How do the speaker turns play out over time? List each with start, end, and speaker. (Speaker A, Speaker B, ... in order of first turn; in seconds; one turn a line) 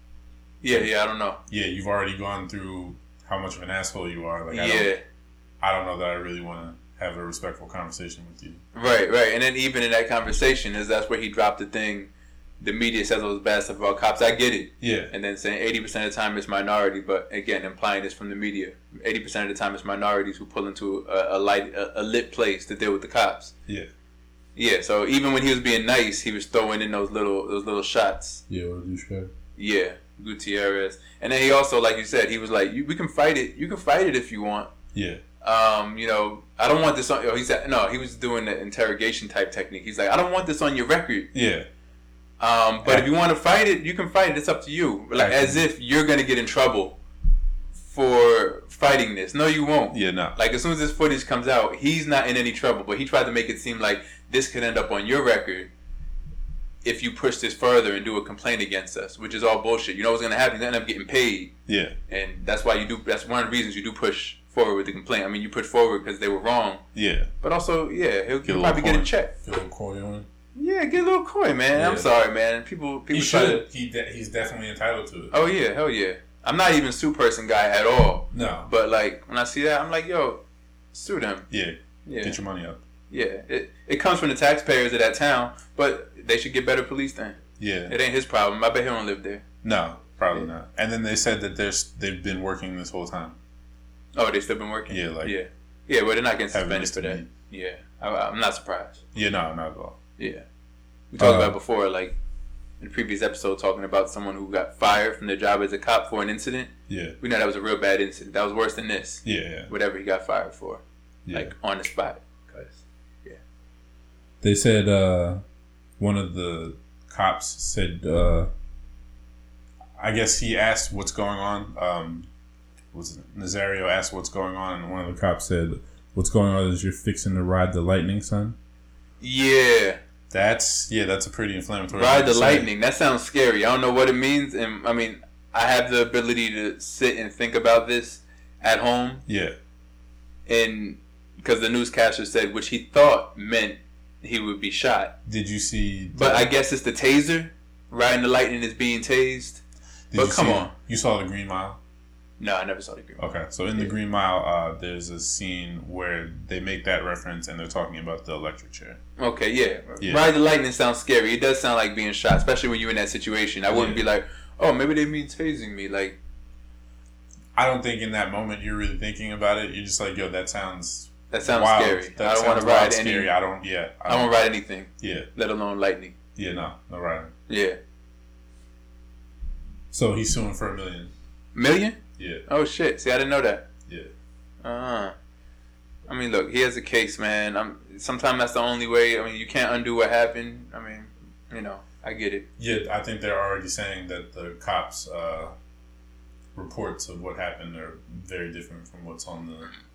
Speaker A: 0.6-1.4
Speaker B: 1.5-4.9
Speaker A: 4.5-5.0
Speaker B: 5.6-8.6
Speaker A: 8.7-23.5
Speaker B: 14.8-15.1
Speaker A: 24.6-28.4
Speaker B: 28.5-29.3
Speaker A: 29.6-34.7
Speaker B: 34.9-35.2
Speaker A: 35.4-41.3
Speaker B: 41.3-41.6
Speaker A: 42.4-47.0
Speaker B: 42.8-43.1
Speaker B: 45.1-45.6
Speaker A: 47.8-55.7
Speaker B: 49.9-50.4
Speaker A: 56.8-61.5
Speaker B: 61.7-61.9
Speaker A: 62.1-66.8
Speaker B: 66.9-67.3
Speaker A: 67.4-69.3
Speaker B: 68.4-70.3
Speaker A: 70.5-73.6
Speaker B: 71.7-72.1
Speaker B: 73.1-75.3
Speaker A: 75.3-80.4
Speaker B: 78.3-78.7
Speaker A: 80.9-81.5
Speaker B: 81.5-82.8
Speaker A: 82.0-82.4
Speaker A: 83.1-89.4
Speaker B: 87.6-87.9
Speaker B: 89.6-93.3
Speaker A: 94.1-99.0
Speaker B: 94.9-95.3
Speaker B: 96.5-97.3
Speaker B: 99.1-100.0
Speaker A: 100.2-100.5
Speaker A: 101.1-102.2
Speaker B: 101.2-101.6
Speaker A: 102.8-113.4
Speaker B: 106.9-107.2
Speaker B: 109.2-109.7
Speaker B: 111.2-111.5
Speaker B: 114.4-115.4
Speaker B: 116.0-118.5
Speaker B: 120.0-122.3
Speaker B: 122.9-128.6
Speaker A: 129.2-130.0
Speaker B: 130.3-132.7
Speaker A: 131.9-139.2
Speaker B: 139.3-139.5
Speaker A: 140.5-145.1
Speaker B: 145.2-146.5
Speaker A: 146.1-149.6
Speaker B: 150.1-151.8
Speaker A: 150.1-150.7
Speaker A: 152.4-153.9
Speaker B: 153.2-159.0
Speaker A: 159.2-166.2
Speaker B: 160.0-160.4
Speaker B: 163.7-164.0
Speaker B: 167.6-174.5
Speaker A: 171.3-173.3
Speaker A: 174.1-176.1
Speaker B: 175.0-175.3
Speaker B: 176.3-177.3
Speaker A: 177.5-177.8
Speaker B: 179.9-181.1
Speaker A: 181.5-183.6
Speaker B: 182.2-182.4
Speaker A: 184.6-185.1
Speaker A: 186.1-192.4
Speaker B: 192.6-195.5
Speaker B: 196.5-199.8